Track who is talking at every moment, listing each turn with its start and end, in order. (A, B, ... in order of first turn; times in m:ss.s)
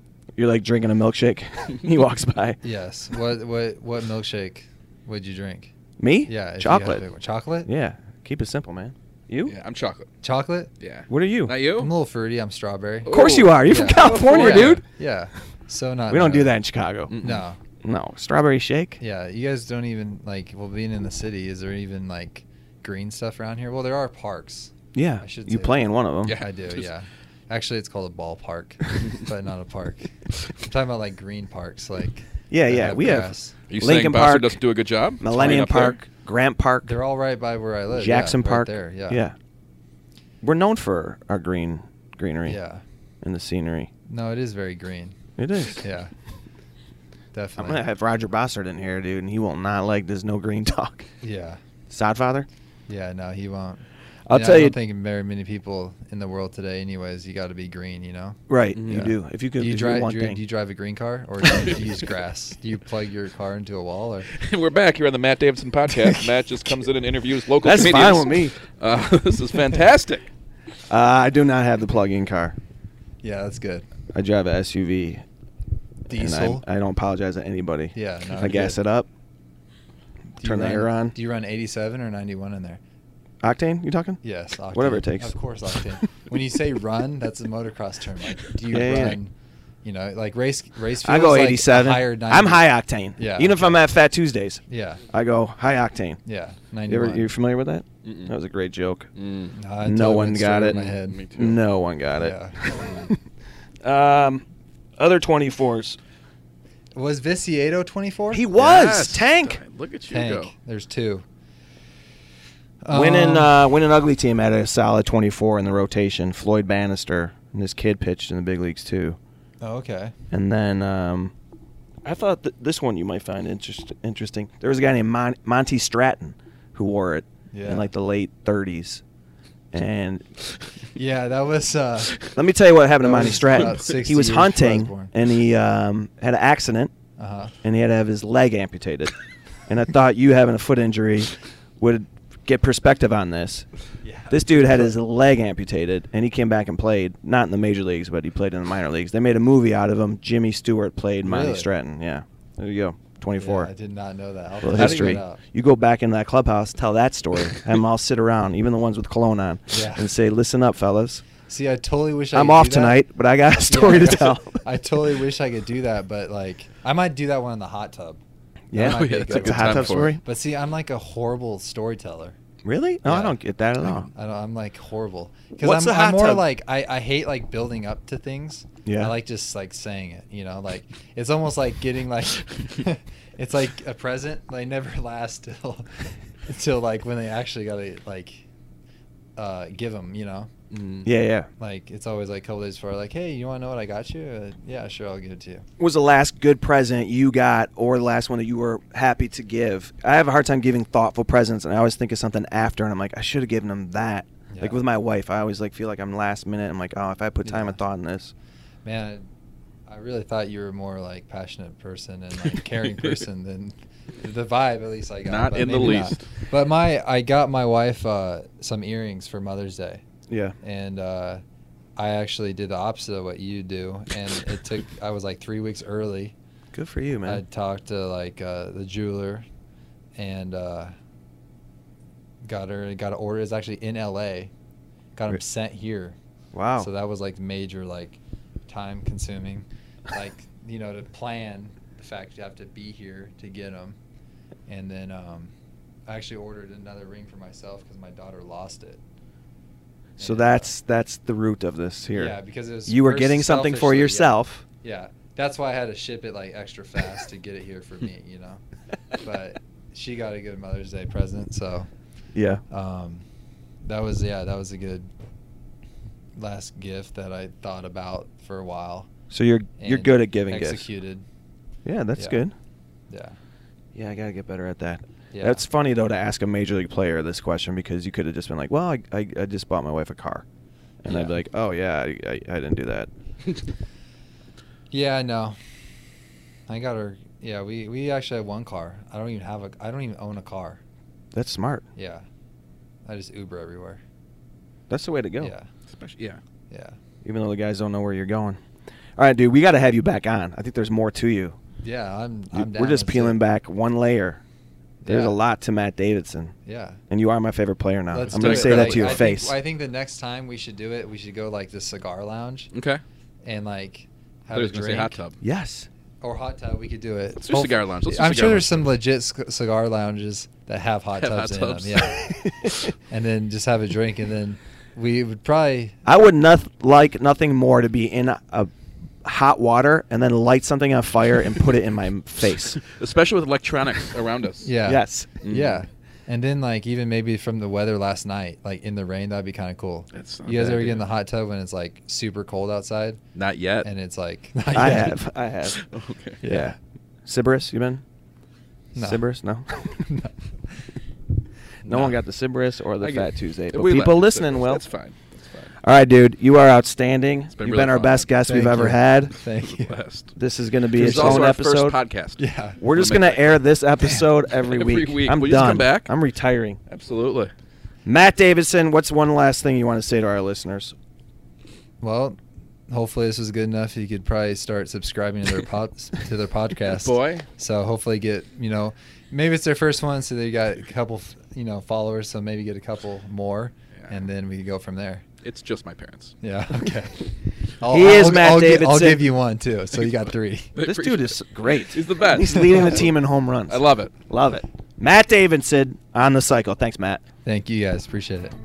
0:00.4-0:02.6 A
0:02.6-0:05.7 B
0:06.0-0:07.0 A
0:06.3-0:07.7 B
0:07.6-0:09.5 A
0:09.4-0:10.1 C
0:10.2-0:10.7 B
0:10.8-0:11.9 C
0:11.1-0:11.5 A
0:11.8-0:16.6 B
0:13.0-0:14.8 C
0:13.1-0:14.8 A
0:16.1-0:17.1 A
0:17.1-0:17.4 C
0:17.2-0:17.6 B
0:17.8-0:19.0 A
0:19.0-0:33.5 B
0:24.9-0:26.4 A
0:26.2-0:26.8 C
0:32.5-0:34.6 A
0:33.7-0:36.0 C
0:35.2-0:36.9 A
0:35.3-0:35.8 B
0:36.8-0:39.2 B
0:37.9-0:39.3 A
0:40.4-0:42.6 A
0:42.4-0:42.8 B
0:43.2-0:43.9 A
0:44.1-0:45.2 B
0:45.4-0:45.8 A
0:45.8-0:46.1 B
0:47.3-0:47.8 B
0:47.6-0:51.1 A
0:51.2-0:51.6 B
0:51.9-0:52.5 A
0:52.9-1:04.3 B
0:54.2-0:54.8 A
0:58.5-1:00.4 A
0:58.8-0:59.1 C
1:04.3-1:10.3 C
1:07.6-1:08.6 A
1:10.9-1:12.6 A
1:13.2-1:13.8 B
1:14.1-1:15.2 A
1:16.1-1:16.6 B
1:16.1-1:19.1 A
1:17.9-1:18.8 B
1:20.4-1:21.1 A
1:20.4-1:22.8 B
1:23.4-1:24.2 A
1:24.2-1:29.3 B
1:24.7-1:25.4 A
1:28.7-1:29.2 A
1:29.8-1:33.8 B
1:31.0-1:36.2 A
1:34.7-1:35.0 B
1:36.2-1:37.3 B
1:36.9-1:39.1 A
1:38.0-1:38.3 C
1:39.2-1:39.5 C
1:39.5-1:41.2 B
1:39.8-1:43.2 A
1:40.7-1:41.6 C
1:42.2-1:42.6 B
1:42.8-1:43.1 C
1:43.8-1:44.4 A
1:45.0-1:46.0 A
1:47.0-1:48.5 B
1:48.3-1:49.6 A
1:48.6-1:50.5 C
1:50.1-1:51.2 B
1:52.8-1:53.5 B
1:52.9-1:59.2 A
1:59.6-2:00.1 B
2:00.3-2:01.3 A
2:02.0-2:09.0 A
2:07.5-2:07.9 B
2:09.7-2:10.2 A
2:10.9-2:12.2 B
2:12.2-2:16.9 A
2:13.0-2:15.1 B
2:17.2-2:17.5 B
2:17.6-2:19.1 A
2:19.7-2:23.6 A
2:24.0-2:25.0 B
2:24.3-2:33.7 A
2:31.2-2:31.7 B
2:33.4-2:35.4 B
2:34.6-2:41.2 A
2:39.7-2:40.1 B
2:41.4-2:43.0 B
2:42.3-2:44.6 A
2:43.6-2:48.2 B
2:48.7-2:50.2 A
2:48.7-2:52.4 B
2:48.8-2:50.1 C
2:52.6-2:54.1 A
2:53.0-2:53.4 B
2:54.1-3:08.4 B
2:55.6-2:56.4 A
2:58.8-2:59.1 A
3:09.4-3:10.5 B
3:10.7-3:11.1 C
3:11.0-3:11.5 A
3:11.6-3:15.6 B
3:15.8-3:28.3 A
3:24.5-3:24.8 B
3:27.4-3:27.8 B
3:28.8-3:29.3 B
3:29.9-3:40.0 B
3:35.2-3:36.2 C
3:40.3-3:40.6 A
3:40.6-3:41.4 B
3:42.0-3:46.3 B
3:46.7-3:47.4 A
3:47.2-3:49.4 B
3:50.2-3:50.9 B
3:52.4-3:54.5 B
3:55.2-3:56.2 B
3:56.5-3:56.9 A
3:56.8-4:04.0 B
4:04.7-4:05.5 B
4:06.1-4:09.0 B
4:10.2-4:10.7 B
4:10.2-4:12.4 A
4:12.1-4:21.9 B
4:12.9-4:14.6 A
4:22.3-4:22.6 A
4:22.7-4:23.2 B
4:23.8-4:25.1 B
4:26.4-4:29.1 B
4:29.3-4:30.8 A
4:29.8-4:31.2 B
4:31.8-4:32.5 A
4:32.2-4:32.4 B
4:33.1-4:33.4 B
4:33.9-4:40.4 A
4:35.3-4:35.6 B
4:41.0-4:43.1 A
4:41.1-4:41.3 B
4:44.9-4:45.6 B
4:46.7-4:50.8 B
4:51.3-4:51.8 A
4:52.0-4:52.2 B
4:53.0-4:54.0 B
4:54.9-4:55.5 A
4:55.4-4:55.7 B
4:55.9-4:56.4 C
4:56.7-4:57.0 B
4:57.2-4:58.6 A
4:59.2-5:01.6 A
5:01.8-5:03.4 B
5:02.5-5:04.4 A
5:05.0-5:05.4 B
5:05.1-5:06.5 A
5:06.6-5:07.0 B
5:07.1-5:09.5 A
5:08.1-5:12.7 B
5:08.3-5:09.2 C
5:12.7-5:13.0 C
5:13.4-5:15.2 B
5:14.5-5:15.4 C
5:15.4-5:15.9 A
5:16.2-5:22.4 B
5:17.4-5:18.9 C
5:21.2-5:22.3 C
5:22.4-5:22.7 A
5:23.1-5:26.0 B
5:26.0-5:28.7 A
5:29.2-5:32.8 A
5:32.8-5:34.7 C
5:34.6-5:43.2 B
5:34.8-5:35.3 A
5:35.4-5:35.8 C
5:40.1-5:41.0 C
5:43.3-5:43.9 C
5:43.8-5:45.2 B
5:44.7-5:45.8 A
5:45.7-5:46.4 C
5:46.4-5:46.7 A
5:46.4-5:46.8 B
5:47.2-5:48.0 A
5:48.9-5:49.2 B
5:49.0-5:49.8 A
5:49.8-5:50.3 B
5:51.8-5:52.1 B
5:51.8-5:54.8 A
5:53.0-5:55.7 C
5:55.8-5:59.3 A
5:57.5-5:58.3 C
5:58.4-6:00.0 B
5:59.6-6:00.3 C
6:00.4-6:02.0 A
6:00.9-6:03.6 C
6:01.0-6:01.4 B
6:02.4-6:02.8 B
6:02.8-6:06.8 A
6:04.5-6:06.1 C
6:06.9-6:07.5 C
6:08.0-6:10.9 A
6:12.0-6:12.4 B
6:12.9-6:25.2 B
6:16.9-6:17.4 C
6:25.4-6:26.3 C
6:26.4-6:27.2 B
6:27.8-6:30.7 B
6:27.8-6:29.2 A
6:30.7-6:34.1 C
6:30.8-6:37.2 A
6:37.4-6:38.5 B